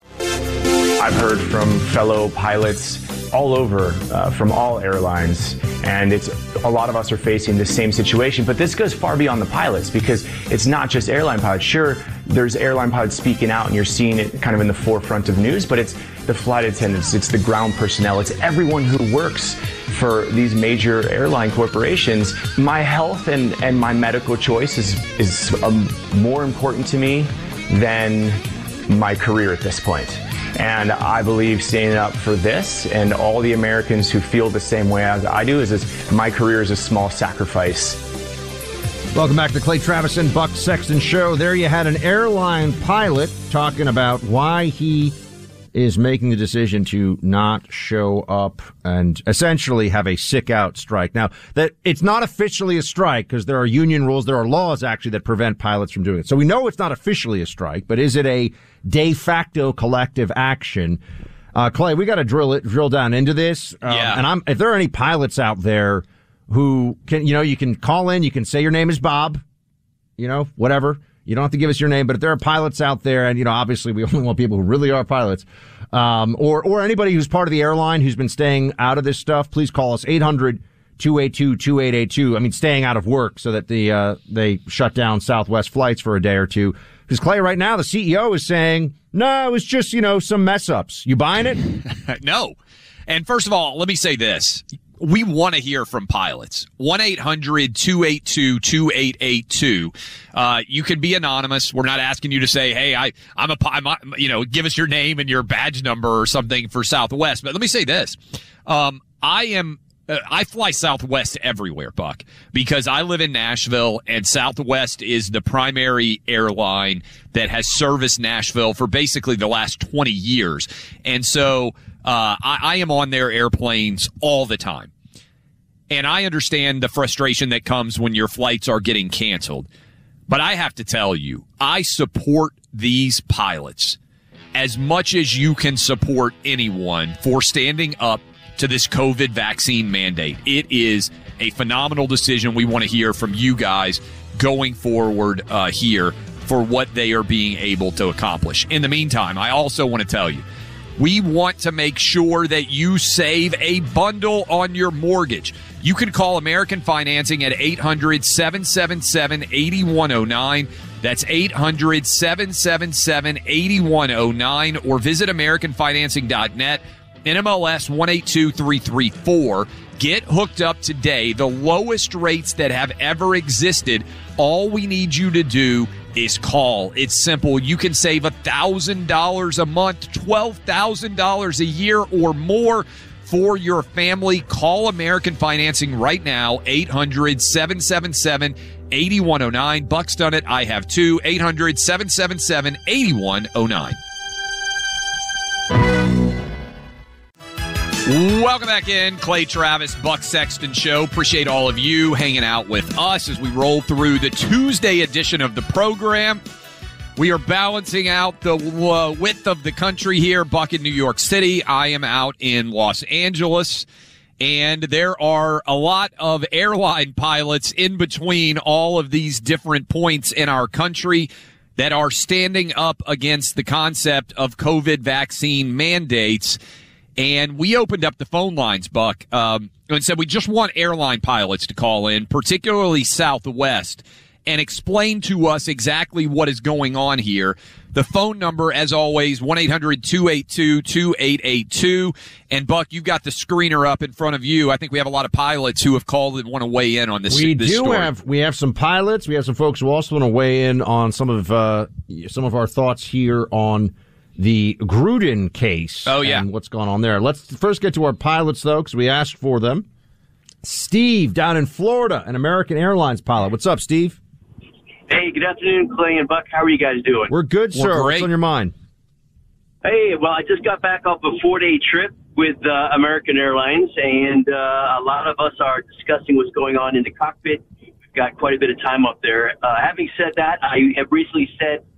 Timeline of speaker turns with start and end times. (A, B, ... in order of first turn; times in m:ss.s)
0:01.0-0:38.0 A
0:39.1-0:45.1 B
0:45.7-1:01.0 B
1:01.5-1:09.4 B
1:03.9-1:04.2 C
1:10.2-1:31.6 B
1:32.1-1:32.6 C
1:33.1-2:04.9 C
2:05.9-2:09.7 C
2:10.3-2:14.0 C
2:14.5-2:30.4 C
2:31.0-3:14.0 C
3:18.0-3:26.4 C
3:27.2-3:33.8 C
3:34.4-3:46.6 C
3:47.2-4:08.1 C
4:07.3-4:19.9 B
4:16.1-4:16.4 C
4:20.6-4:24.2 B
4:25.1-4:27.3 D
4:27.3-4:28.7 B
4:27.7-4:28.3 C
4:29.8-4:37.6 D
4:38.1-4:41.8 D